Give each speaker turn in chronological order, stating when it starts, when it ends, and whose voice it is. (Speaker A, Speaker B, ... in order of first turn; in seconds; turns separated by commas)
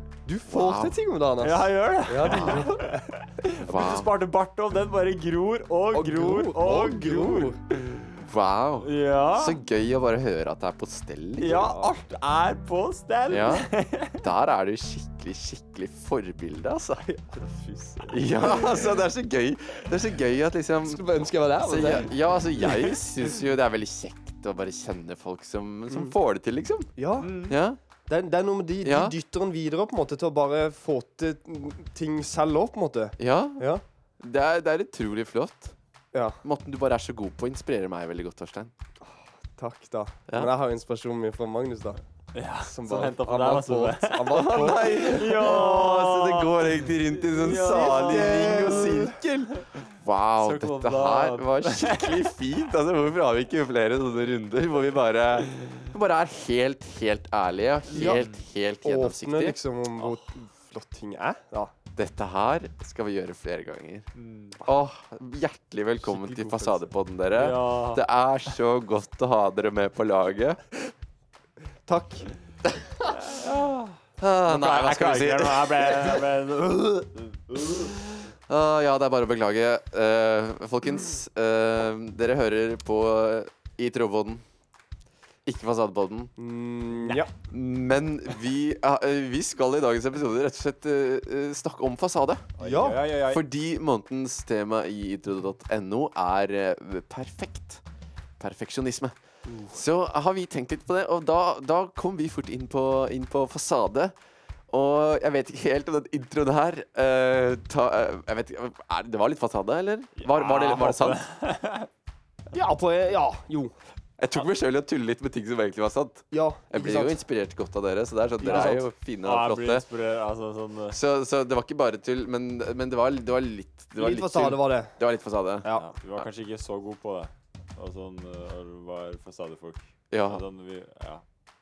Speaker A: 0.3-3.1, Speaker B: 0.5-0.9, Speaker C: 1.4-8.2, Speaker B: 2.2-2.7, Speaker B: 3.6-4.1, Speaker A: 5.9-7.6, Speaker B: 8.2-11.7, Speaker C: 8.8-9.6, Speaker C: 11.4-14.2, Speaker A: 11.5-11.9, Speaker B: 13.3-13.7, Speaker B: 14.2-17.0, Speaker A: 17.0-18.7, Speaker B: 18.1-21.0, Speaker A: 20.8-22.1, Speaker B: 21.6-26.9, Speaker C: 22.6-23.0, Speaker A: 25.9-26.1, Speaker A: 27.0-27.4, Speaker C: 27.2-27.6, Speaker B: 27.5-27.8, Speaker A: 28.1-33.8, Speaker B: 28.8-29.1, Speaker B: 33.2-33.7, Speaker B: 34.2-35.8, Speaker A: 36.1-36.4, Speaker B: 36.4-38.7, Speaker A: 39.0-42.0, Speaker C: 42.3-49.6, Speaker A: 42.6-45.5, Speaker B: 44.3-59.6, Speaker A: 47.6-49.2, Speaker C: 50.4-52.3, Speaker A: 57.9-58.2, Speaker C: 57.9-58.4, Speaker A: 58.8-61.7, Speaker B: 62.0-64.1, Speaker C: 64.2-64.6, Speaker B: 64.6-70.6, Speaker A: 66.1-66.8, Speaker C: 67.3-68.0, Speaker A: 71.9-72.3, Speaker B: 72.7-73.4, Speaker C: 73.2-77.8, Speaker B: 74.2-76.3, Speaker B: 77.6-84.4, Speaker B: 85.5-86.3, Speaker A: 86.4-87.3, Speaker B: 87.3-92.5, Speaker C: 92.6-93.4, Speaker A: 92.6-93.0, Speaker B: 93.2-97.8, Speaker B: 98.4-99.1, Speaker A: 99.5-99.8, Speaker B: 99.7-104.2, Speaker B: 104.7-111.2, Speaker C: 110.2-111.9, Speaker A: 112.5-113.8, Speaker B: 114.2-119.9, Speaker A: 116.3-117.2, Speaker A: 118.4-118.9, Speaker C: 119.2-121.0, Speaker B: 120.9-126.3, Speaker A: 124.0-125.0, Speaker C: 125.7-131.2, Speaker B: 130.1-130.4